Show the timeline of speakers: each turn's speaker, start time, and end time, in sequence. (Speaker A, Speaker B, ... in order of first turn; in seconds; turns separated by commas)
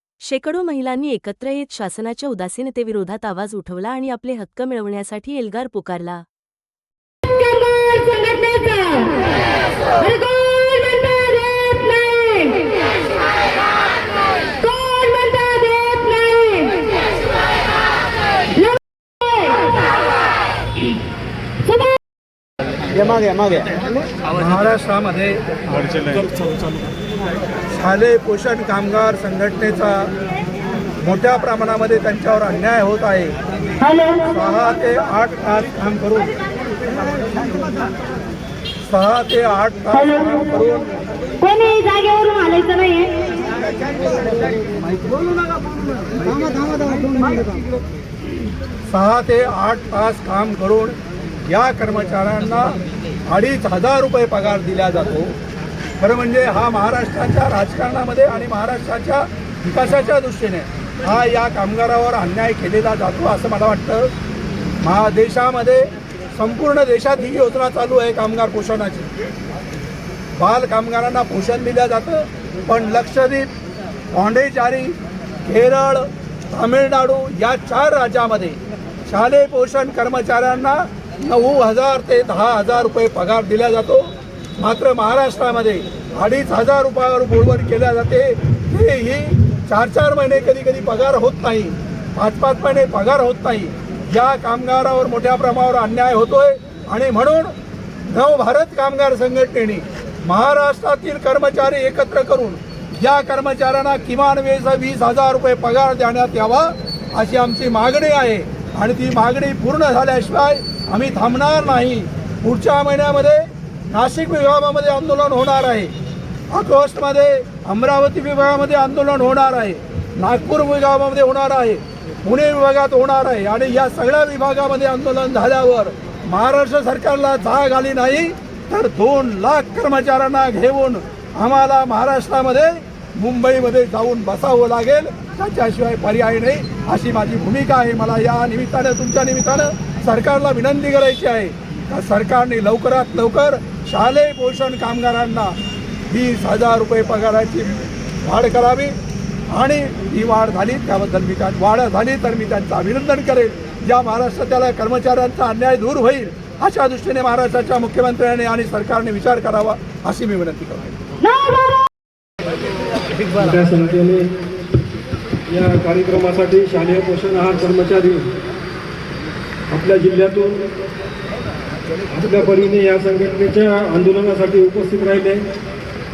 Speaker A: 0.2-6.2, Speaker B: 7.3-9.4, Speaker B: 10.0-12.8, Speaker B: 14.6-16.9, Speaker B: 19.3-19.7, Speaker C: 24.3-26.3, Speaker C: 27.7-30.1, Speaker C: 31.0-33.4, Speaker C: 34.1-36.4, Speaker C: 38.9-41.0, Speaker B: 41.5-43.2, Speaker C: 48.9-51.0, Speaker C: 51.5-52.8, Speaker C: 53.3-55.4, Speaker C: 56.0-64.1, Speaker C: 64.8-69.1, Speaker C: 70.4-73.5, Speaker C: 74.1-78.6, Speaker C: 79.1-84.1, Speaker C: 84.6-97.5, Speaker C: 98.1-115.9, Speaker C: 116.5-145.6, Speaker C: 146.1-148.9, Speaker C: 149.5-160.9, Speaker B: 161.5-161.8, Speaker D: 163.3-164.3, Speaker D: 165.5-168.3, Speaker D: 169.7-170.7, Speaker D: 172.1-175.5